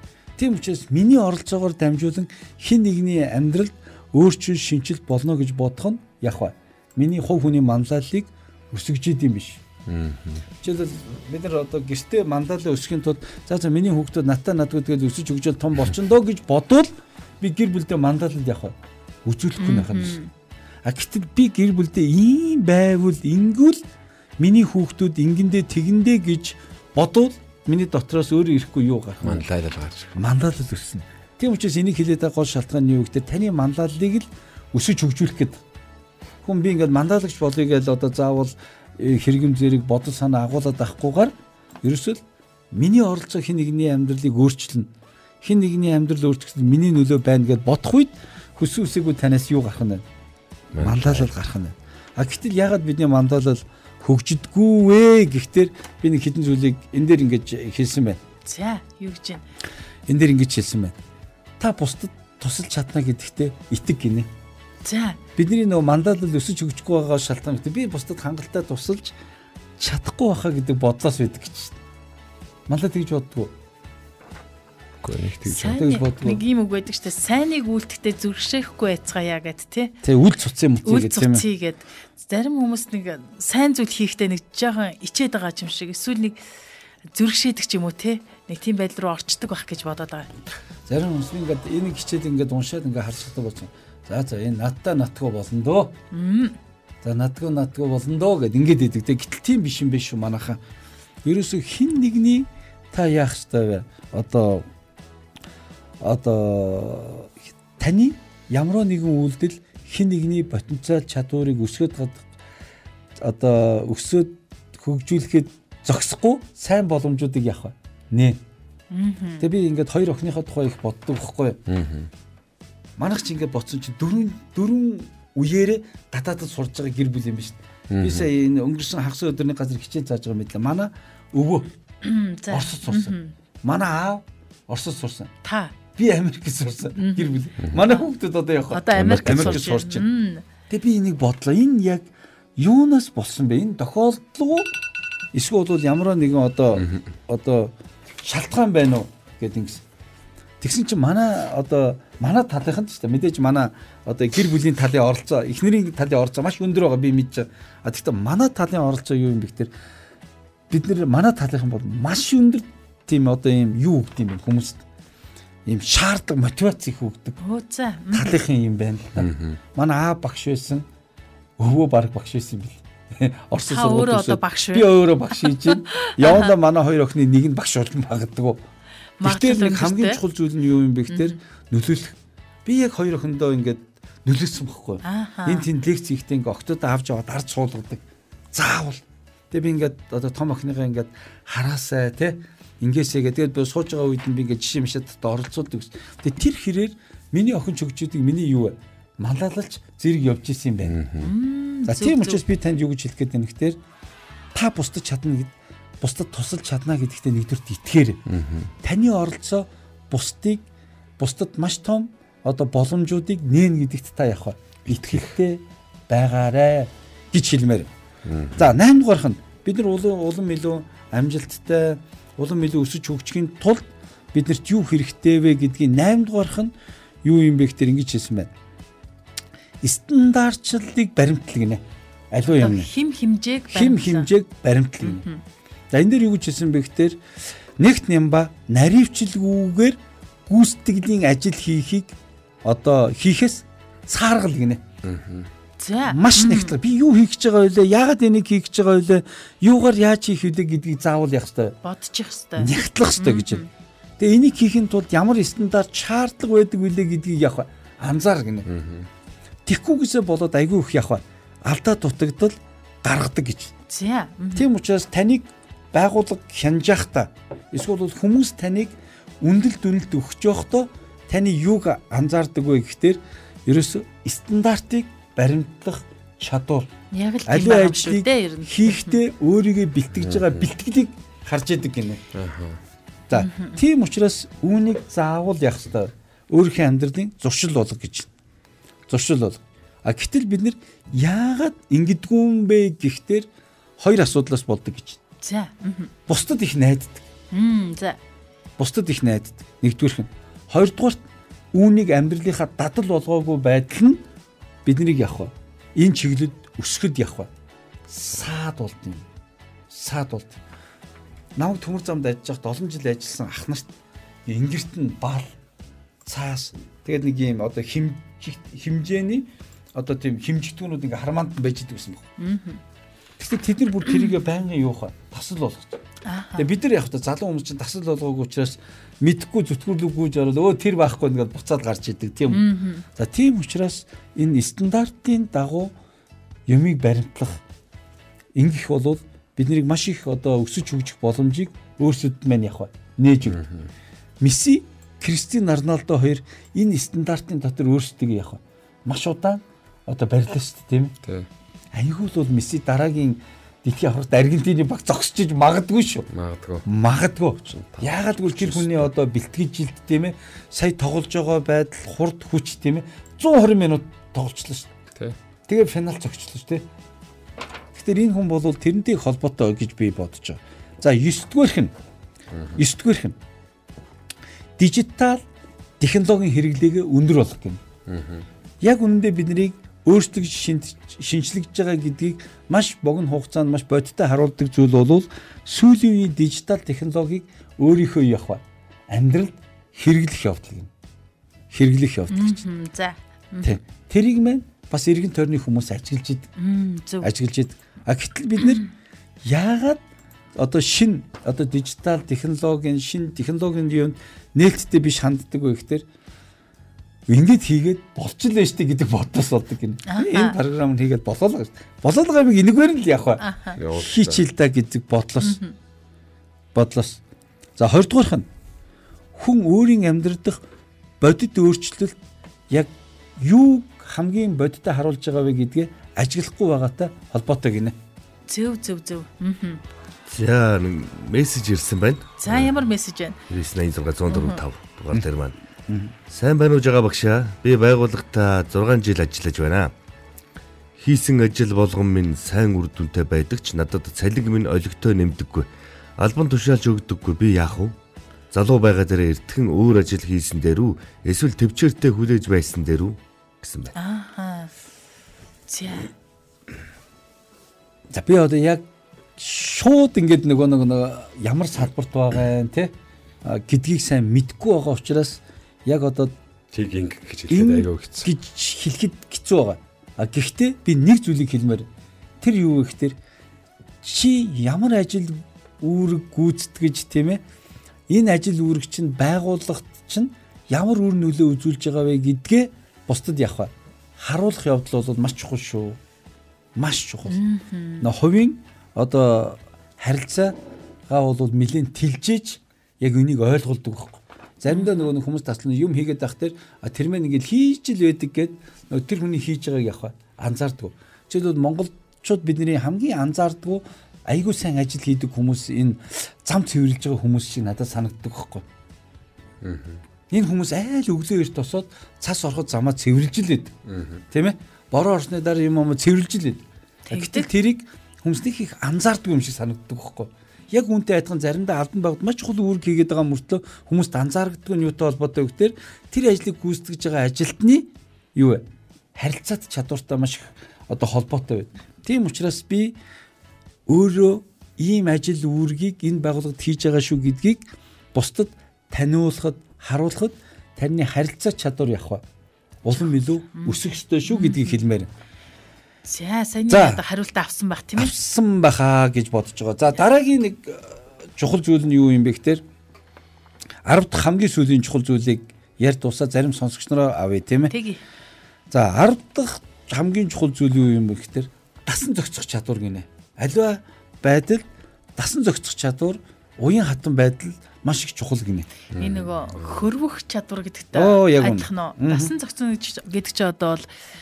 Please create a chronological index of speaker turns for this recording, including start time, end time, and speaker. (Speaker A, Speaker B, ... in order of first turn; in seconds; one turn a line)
Speaker A: 0.4-9.6
Speaker B: 9.8-10.4
Speaker A: 10.6-20.2
Speaker C: 19.6-20.3
Speaker A: 20.8-23.8
Speaker A: 24.4-29.4
Speaker B: 29.2-30.1
Speaker A: 30.1-35.6
Speaker A: 36.4-42.2
Speaker A: 42.7-44.9
Speaker A: 45.4-50.0
Speaker B: 50.7-51.3
Speaker A: 50.8-58.2
Speaker C: 58.4-59.4
Speaker A: 60.1-61.0
Speaker A: 61.6-64.3
Speaker C: 64.8-65.2
Speaker A: 65.3-69.1
Speaker A: 69.8-71.8
Speaker A: 72.7-73.5
Speaker B: 75.0-75.8
Speaker A: 75.4-76.4
Speaker C: 75.5-80.0
Speaker A: 80.0-81.4
Speaker C: 80.8-86.4
Speaker C: 87.1-90.3
Speaker A: 90.9-95.9
Speaker C: 96.1-96.5
Speaker A: 97.0-100.6
Speaker A: 101.2-104.6
Speaker A: 106.0-112.3
Speaker A: 113.2-118.4
Speaker C: 118.9-119.4
Speaker A: 119.4-121.6
Speaker B: 121.7-122.1
Speaker A: 123.0-131.7
Speaker B: 127.9-128.3
Speaker C: 132.0-133.3
Speaker A: 132.5-135.3
Speaker C: 135.4-135.7
Speaker A: 135.9-140.1
Speaker C: 136.9-138.1
Speaker C: 138.7-140.4
Speaker A: 140.7-144.7
Speaker A: 145.3-149.8
Speaker A: 150.6-159.7
Speaker A: 160.7-164.8
Speaker A: 165.7-167.4
Speaker C: 167.4-168.3
Speaker A: 168.1-170.8
Speaker B: 169.2-169.6
Speaker A: 171.6-178.6
Speaker C: 173.7-176.5
Speaker C: 179.2-180.2
Speaker A: 179.2-188.0
Speaker C: 181.1-181.3
Speaker C: 185.0-185.7
Speaker A: 188.5-201.0
Speaker B: 200.8-201.3
Speaker C: 201.2-202.4
Speaker A: 201.8-203.8
Speaker A: 204.5-208.2
Speaker B: 208.3-208.7
Speaker A: 208.8-210.6
Speaker A: 211.2-217.9
Speaker B: 214.9-215.3
Speaker B: 218.2-218.7
Speaker A: 218.6-226.7
Speaker A: 227.2-228.5
Speaker A: 229.8-232.9
Speaker C: 232.5-234.3
Speaker A: 233.7-235.2
Speaker C: 235.0-235.4
Speaker A: 235.9-237.2
Speaker A: 237.8-244.8
Speaker B: 245.0-245.5
Speaker C: 245.8-246.7
Speaker A: 246.1-251.8
Speaker C: 251.8-253.7
Speaker A: 252.6-253.6
Speaker A: 254.2-258.7
Speaker B: 258.7-259.1
Speaker A: 259.6-263.7
Speaker C: 263.9-264.7
Speaker A: 264.5-276.9
Speaker C: 277.1-279.2
Speaker A: 277.4-282.2
Speaker B: 280.1-280.6
Speaker B: 282.3-282.8
Speaker A: 283.3-288.3
Speaker C: 283.4-283.8
Speaker A: 289.1-293.5
Speaker A: 294.0-295.2
Speaker C: 295.4-296.1
Speaker A: 296.3-297.2
Speaker C: 297.5-298.2
Speaker A: 298.8-301.2
Speaker A: 301.7-304.2
Speaker A: 304.8-307.5
Speaker A: 308.1-309.2
Speaker A: 309.9-310.6
Speaker A: 311.6-313.9
Speaker A: 314.4-315.5
Speaker A: 316.2-322.2
Speaker C: 322.4-322.8
Speaker A: 323.4-326.0
Speaker C: 324.1-324.4
Speaker C: 326.2-326.7
Speaker A: 326.6-335.9
Speaker C: 332.5-333.0
Speaker A: 336.7-337.6
Speaker A: 338.6-343.7
Speaker B: 343.5-343.8
Speaker A: 344.4-351.1
Speaker B: 351.2-351.5
Speaker A: 351.9-356.3
Speaker B: 356.3-356.8
Speaker A: 356.8-364.9
Speaker B: 357.6-359.1
Speaker A: 365.7-366.8
Speaker A: 367.9-371.9
Speaker A: 372.7-373.4
Speaker A: 374.8-375.4
Speaker A: 376.0-377.8
Speaker B: 378.1-378.4
Speaker A: 378.8-390.9
Speaker A: 391.7-392.6
Speaker C: 392.3-393.7
Speaker A: 393.6-396.5
Speaker C: 396.6-397.3
Speaker A: 397.2-398.8
Speaker C: 398.6-398.9
Speaker A: 399.4-400.0
Speaker A: 400.6-406.0
Speaker A: 407.3-415.6
Speaker C: 410.1-410.6
Speaker C: 413.4-413.8
Speaker B: 413.8-414.4
Speaker C: 415.4-415.7
Speaker A: 416.7-417.2
Speaker A: 417.8-418.5
Speaker A: 419.4-420.6
Speaker A: 421.2-422.2
Speaker A: 422.7-427.9
Speaker C: 428.5-429.8
Speaker D: 430.3-432.7
Speaker C: 432.4-433.4
Speaker D: 433.5-435.5
Speaker C: 434.3-434.6
Speaker A: 435.9-436.1
Speaker D: 436.3-439.9
Speaker D: 441.0-447.9
Speaker D: 448.5-453.9
Speaker C: 453.9-454.7
Speaker C: 455.7-456.1
Speaker A: 458.1-458.8
Speaker A: 459.4-462.9
Speaker A: 463.4-466.3
Speaker B: 466.7-468.3
Speaker A: 467.5-471.9
Speaker A: 472.4-473.1
Speaker A: 474.0-477.4
Speaker A: 478.1-486.0
Speaker A: 486.8-487.4
Speaker C: 487.3-488.1
Speaker A: 488.0-490.5
Speaker A: 491.1-508.6
Speaker C: 494.7-495.1
Speaker B: 509.6-510.0
Speaker A: 510.3-513.7
Speaker B: 513.9-514.2
Speaker A: 514.3-528.6
Speaker C: 517.1-517.5
Speaker A: 529.1-533.0
Speaker A: 533.9-542.2
Speaker A: 542.8-545.1
Speaker C: 543.6-544.7
Speaker C: 546.0-548.1
Speaker A: 546.7-547.0
Speaker A: 548.0-552.6
Speaker A: 553.9-557.7
Speaker C: 557.7-558.0
Speaker A: 558.7-564.6
Speaker A: 565.2-568.7
Speaker B: 568.9-569.9
Speaker C: 569.0-573.9
Speaker A: 570.9-572.3